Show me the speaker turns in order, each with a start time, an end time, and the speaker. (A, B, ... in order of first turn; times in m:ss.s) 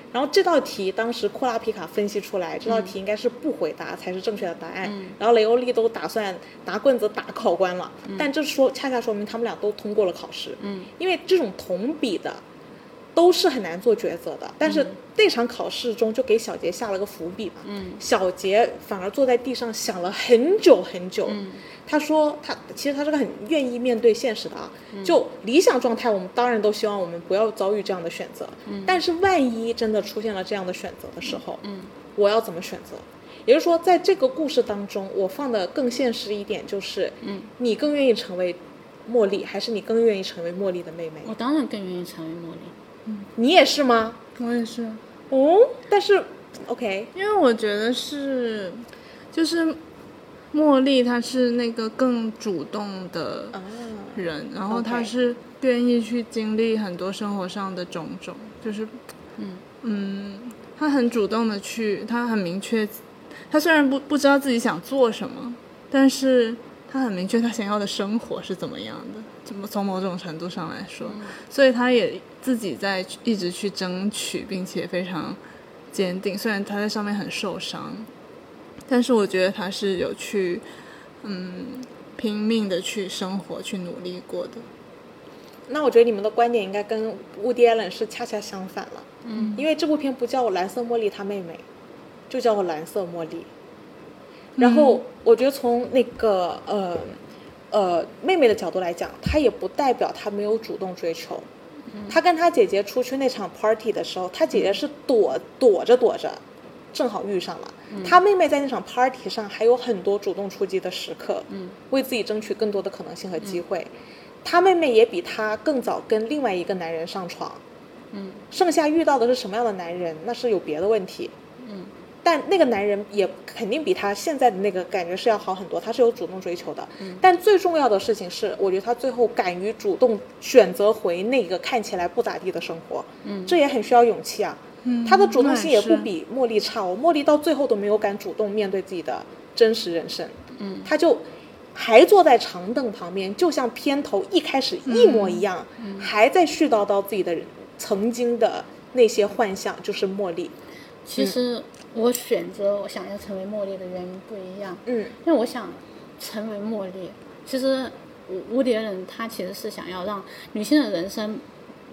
0:00.1-0:12.4 A
0:02.6-0:02.9 B
0:04.8-0:05.2 B
0:10.6-0:10.9 B
0:13.1-0:31.6 A
0:14.6-0:14.9 B
0:17.6-0:18.0 B
0:21.3-0:21.6 B
0:28.6-0:29.0 B
0:31.6-0:31.9 B
0:32.2-0:41.3 A
0:37.2-0:37.5 B
0:41.2-0:42.7 B
0:43.4-0:44.2 A
0:44.4-0:45.0 C
0:45.3-0:47.1 A
0:47.1-0:49.8 C
0:50.5-0:53.6 C
0:53.5-0:55.1 A
0:54.1-0:59.0 C
0:59.4-0:59.6 B
0:59.8-1:15.4 C
1:11.1-1:11.3 B
1:15.9-1:18.1 C
1:18.9-1:20.6 C
1:21.2-1:24.6 C
1:25.7-1:31.6 A
1:29.2-1:29.6 B
1:29.4-1:29.6 C
1:32.3-1:33.5 A
1:34.6-1:35.0 C
1:34.6-1:37.2 A
1:37.7-1:41.4 A
1:42.1-1:46.4 A
1:46.9-1:53.9 A
1:47.9-1:48.2 B
1:51.5-1:51.8 B
1:54.4-1:57.6 A
1:58.1-1:58.4 B
1:58.5-2:01.3 A
2:01.6-2:01.9 B
2:02.2-2:21.2 A
2:13.2-2:13.6 B
2:14.8-2:16.1 C
2:20.6-2:20.9 B
2:21.7-2:30.5 A
2:24.9-2:25.4 C
2:25.8-2:26.1 B
2:31.0-2:41.4 B
2:34.9-2:35.2 A